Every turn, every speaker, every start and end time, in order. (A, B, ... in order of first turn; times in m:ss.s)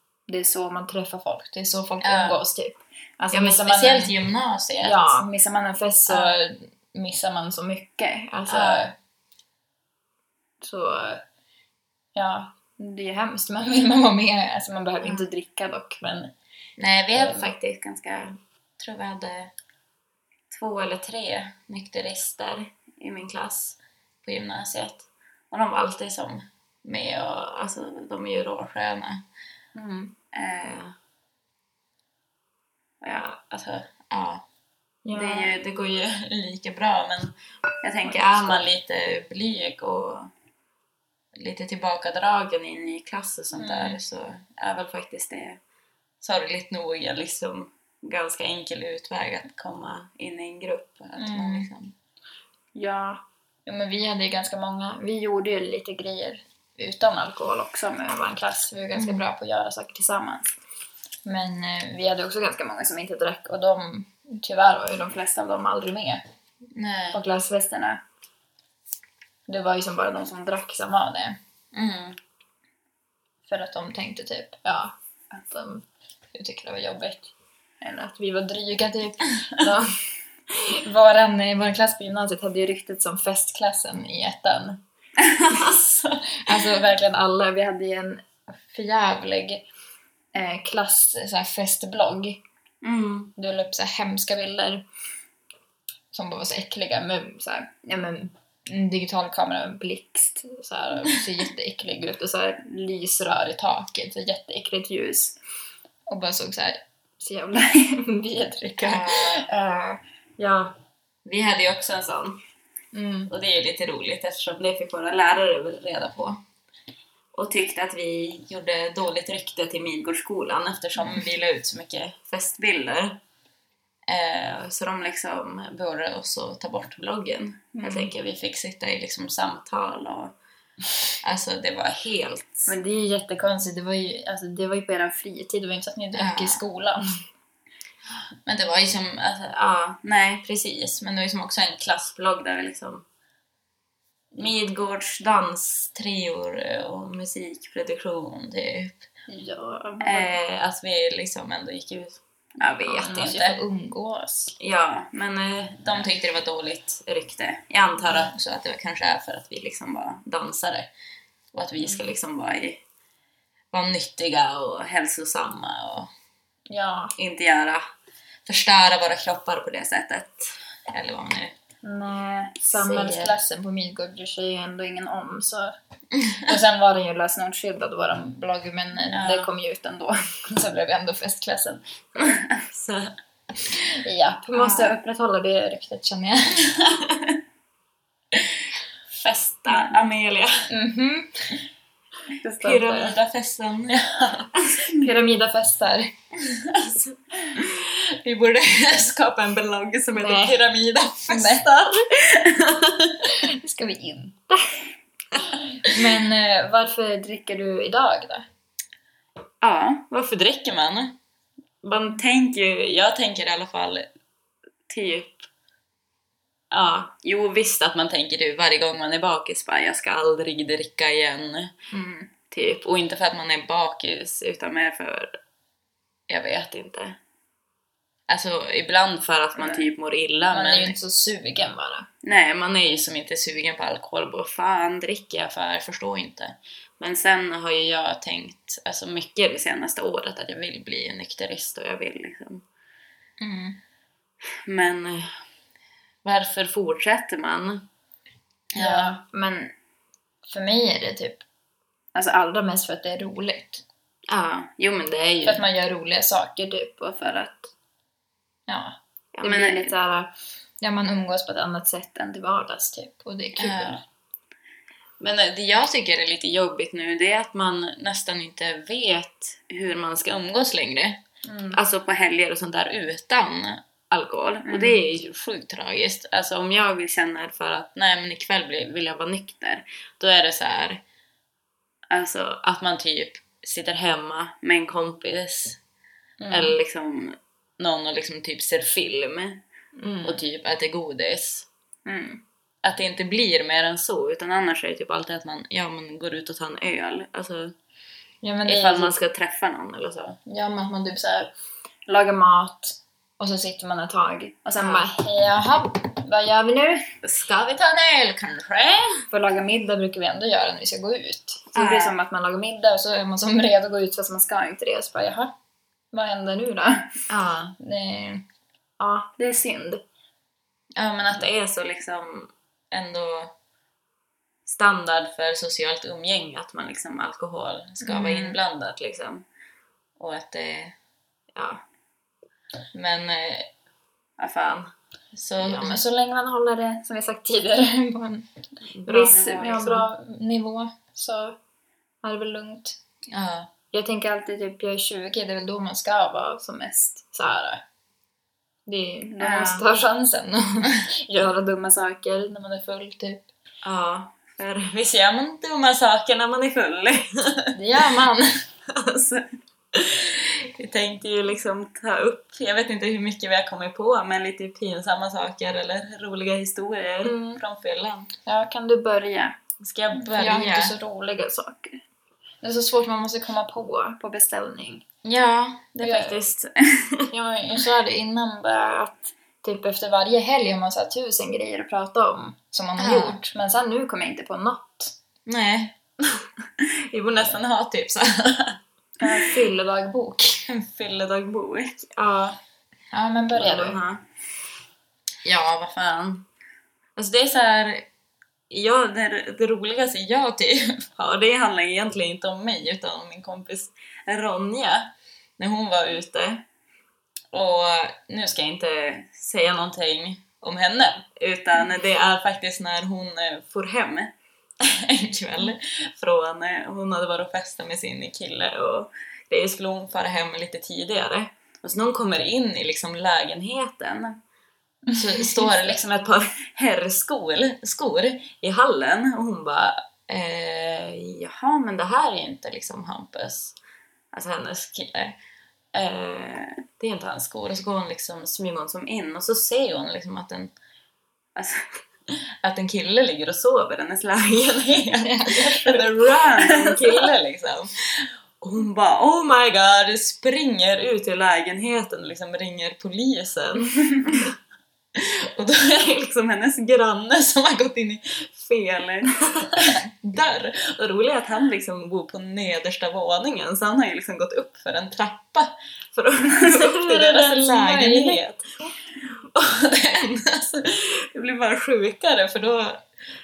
0:00.3-0:04.1 A
0:02.0-0:02.4 B
0:03.3-0:05.2 B
0:04.8-0:09.0 A
0:06.1-0:06.4 B
0:08.5-0:08.9 B
0:10.6-0:11.2 A
0:12.2-0:16.3 A
0:16.8-0:19.5 B
0:17.2-0:17.5 A
0:20.5-0:29.2 B
0:29.8-0:30.2 A
0:30.3-0:30.9 B
0:33.0-0:34.5 B
0:35.0-0:35.6 A
0:35.1-0:40.3 B
0:38.0-0:38.6 A
0:41.4-0:45.6 B
0:43.6-0:44.0 A
0:46.2-0:52.0 B
0:51.2-0:51.7 A
0:52.8-1:00.5 A
0:59.0-0:59.2 B
1:01.2-1:06.2 A
1:06.7-1:07.2 B
1:07.1-1:08.0 A
1:09.5-1:11.4 A
1:11.7-1:12.2 B
1:13.5-1:19.9 A
1:20.5-1:24.8 A
1:25.2-1:26.8 B
1:26.4-1:29.6 A
1:30.3-1:32.4 A
1:32.8-1:33.3 B
1:33.4-1:34.8 A
1:36.1-1:45.4 A
1:46.1-1:50.8 A
1:48.8-1:49.5 B
1:51.2-1:52.4 B
1:52.9-1:53.3 A
1:53.3-1:56.4 B
1:57.3-2:03.2 B
2:04.1-2:10.4 B
2:07.7-2:08.1 A
2:11.2-2:12.7 B
2:12.7-2:17.0 A
2:16.2-2:16.6 B
2:18.5-2:23.1 B
2:24.3-2:29.0 B
2:29.3-2:30.4 A
2:30.0-2:33.6 B
2:32.8-2:34.5 A
2:34.6-2:40.9 B
2:41.5-2:42.8 B
2:43.7-2:46.1 B
2:46.7-2:47.2 A
2:47.2-2:47.8 B
2:48.5-2:51.6 B
2:51.8-2:55.7 A
2:52.7-2:53.3 B
2:56.4-3:02.4 A
2:59.1-2:59.5 B
3:02.5-3:03.2 B
3:04.0-3:06.7 A
3:04.5-3:05.0 B
3:06.7-3:07.4 B
3:08.3-3:10.7 B
3:10.7-3:11.6 A
3:12.4-3:13.2 A
3:12.5-3:15.0 B
3:14.9-3:16.1 A
3:16.4-3:23.3 B
3:20.2-3:20.6 A
3:21.3-3:21.7 A
3:23.3-3:24.8 A
3:25.8-3:28.5 A
3:29.6-3:31.2 B
3:31.8-3:34.1 B
3:34.9-3:35.5 B
3:36.7-3:41.7 B
3:41.9-3:42.3 A
3:42.5-3:45.4 B
3:46.3-3:47.2 B
3:48.3-3:51.0 B
3:49.6-3:49.9 A
3:50.5-3:52.1 A
3:52.2-4:02.6 B
4:03.4-4:03.8 A
4:04.7-4:05.4 B
4:06.2-4:07.9 B
4:08.8-4:09.2 B
4:08.8-4:09.7 A
4:10.5-4:11.4 A
4:12.2-4:13.8 A
4:14.3-4:15.6 B
4:15.4-4:17.7 A
4:18.7-4:24.0 A
4:19.4-4:19.9 B
4:23.6-4:24.0 B
4:25.2-4:31.2 B
4:31.4-4:31.8 A
4:31.7-4:41.0 B
4:34.7-4:35.0 A
4:42.1-4:45.8 B
4:46.4-4:46.8 A
4:46.5-4:49.6 B
4:50.0-4:50.4 A
4:50.2-4:51.7 B
4:52.1-4:52.4 A
4:52.8-4:57.8 B
4:58.4-4:59.2 A
4:58.7-5:00.4 B
5:00.5-5:01.5 A
5:02.1-5:07.1 A
5:04.8-5:05.1 B
5:07.2-5:09.2 B
5:09.3-5:15.5 A
5:11.8-5:12.2 B
5:16.1-5:17.2 A
5:17.3-5:17.8 B
5:17.8-5:18.5 A
5:19.0-5:20.0 A
5:21.0-5:23.6 B
5:24.7-5:29.4 B
5:28.0-5:28.6 A
5:30.2-5:31.0 B
5:31.5-5:31.8 B
5:32.9-5:33.7 B
5:34.4-5:36.0 B
5:35.6-5:38.5 A
5:39.0-5:40.1 B
5:39.0-5:41.6 A
5:42.2-5:43.0 A
5:43.3-5:43.7 B
5:43.9-5:47.8 A
5:48.9-5:53.5 A
5:49.4-5:49.8 B
5:53.8-5:57.7 B
5:57.8-5:58.6 A
5:58.9-6:08.3 B
6:07.2-6:07.6 A
6:08.5-6:09.6 A
6:09.8-6:11.0 B
6:10.1-6:12.0 A
6:12.6-6:15.0 A
6:15.2-6:17.3 B
6:16.0-6:16.4 A
6:17.3-6:25.1 A
6:23.0-6:23.4 B
6:25.5-6:29.4 B
6:29.2-6:30.6 A
6:30.7-6:32.6 B
6:33.1-6:34.0 A
6:33.5-6:34.2 B
6:35.4-6:36.4 B
6:37.2-6:38.1 B
6:38.7-6:46.6 B
6:47.5-7:04.4 B
7:05.2-7:13.8 B
7:14.3-7:15.4 B
7:15.9-7:20.7 B
7:21.6-7:34.6 B
7:25.2-7:27.3 A
7:35.2-7:48.6 B
7:46.5-7:48.4 A
7:49.3-7:53.0 B